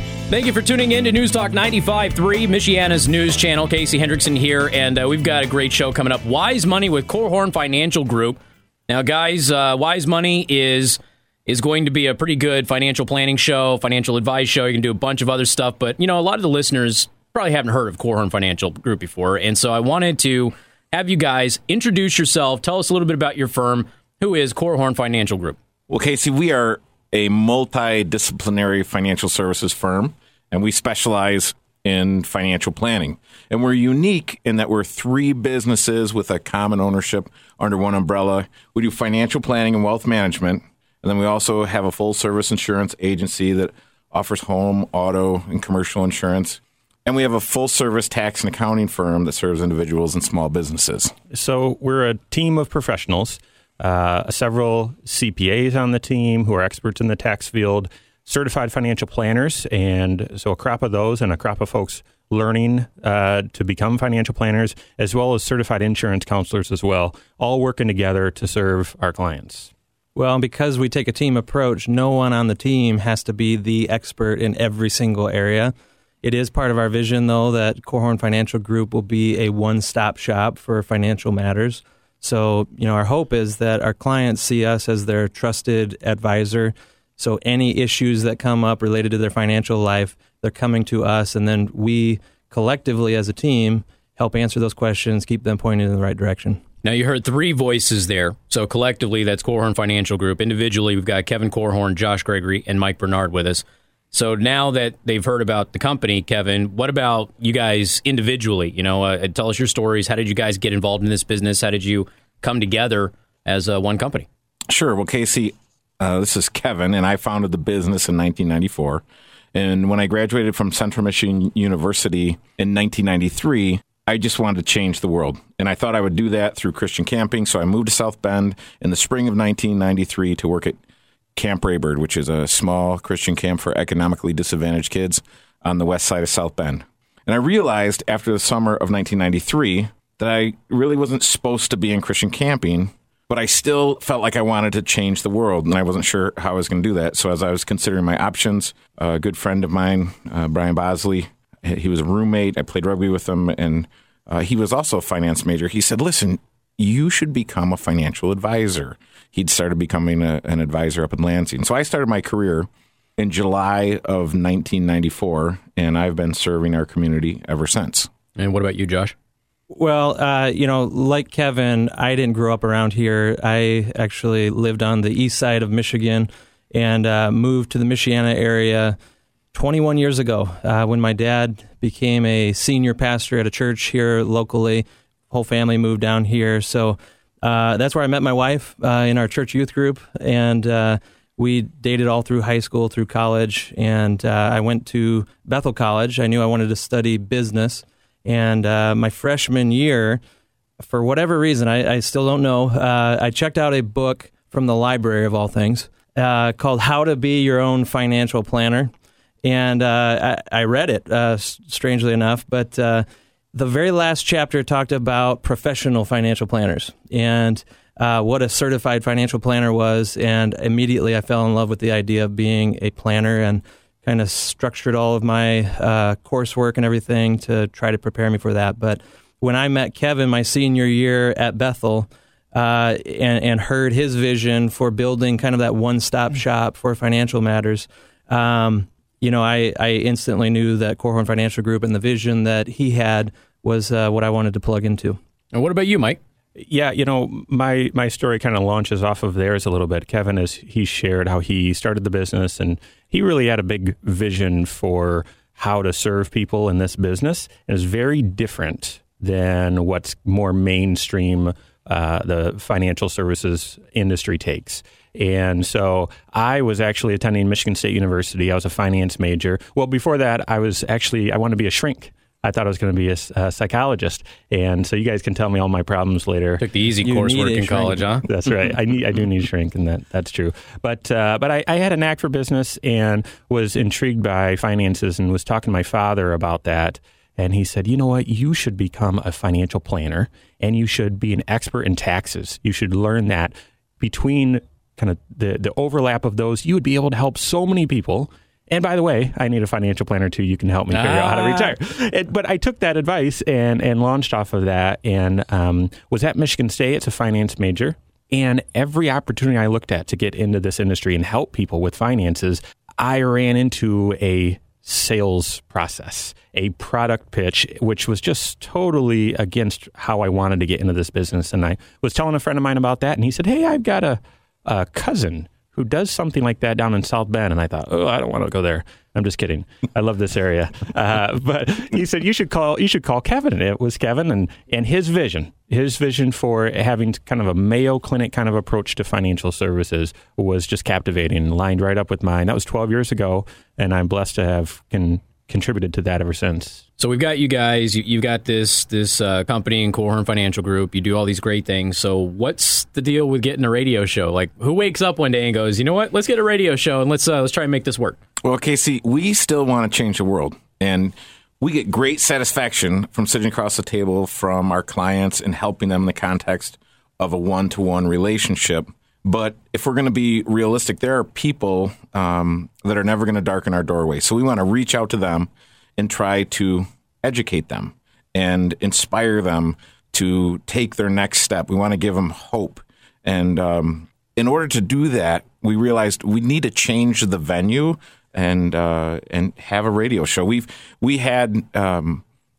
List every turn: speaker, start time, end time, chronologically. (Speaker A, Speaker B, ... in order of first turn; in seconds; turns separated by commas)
Speaker A: 0.3-25.6, Speaker B: 25.9-51.1, Speaker C: 51.3-69.7, Speaker D: 70.2-96.6, Speaker A: 96.8-114.3, Speaker B: 114.7-119.0, Speaker B: 119.5-130.8, Speaker B: 131.4-168.1, Speaker A: 168.4-169.1, Speaker D: 169.7-179.0, Speaker D: 179.5-200.2, Speaker D: 200.8-208.9, Speaker D: 209.4-245.2, Speaker A: 245.5-246.2, Speaker C: 246.6-276.6, Speaker A: 276.6-278.3, Speaker D: 277.0-278.1, Speaker C: 278.3-346.9, Speaker A: 300.9-301.8, Speaker A: 347.0-358.2, Speaker B: 358.4-392.2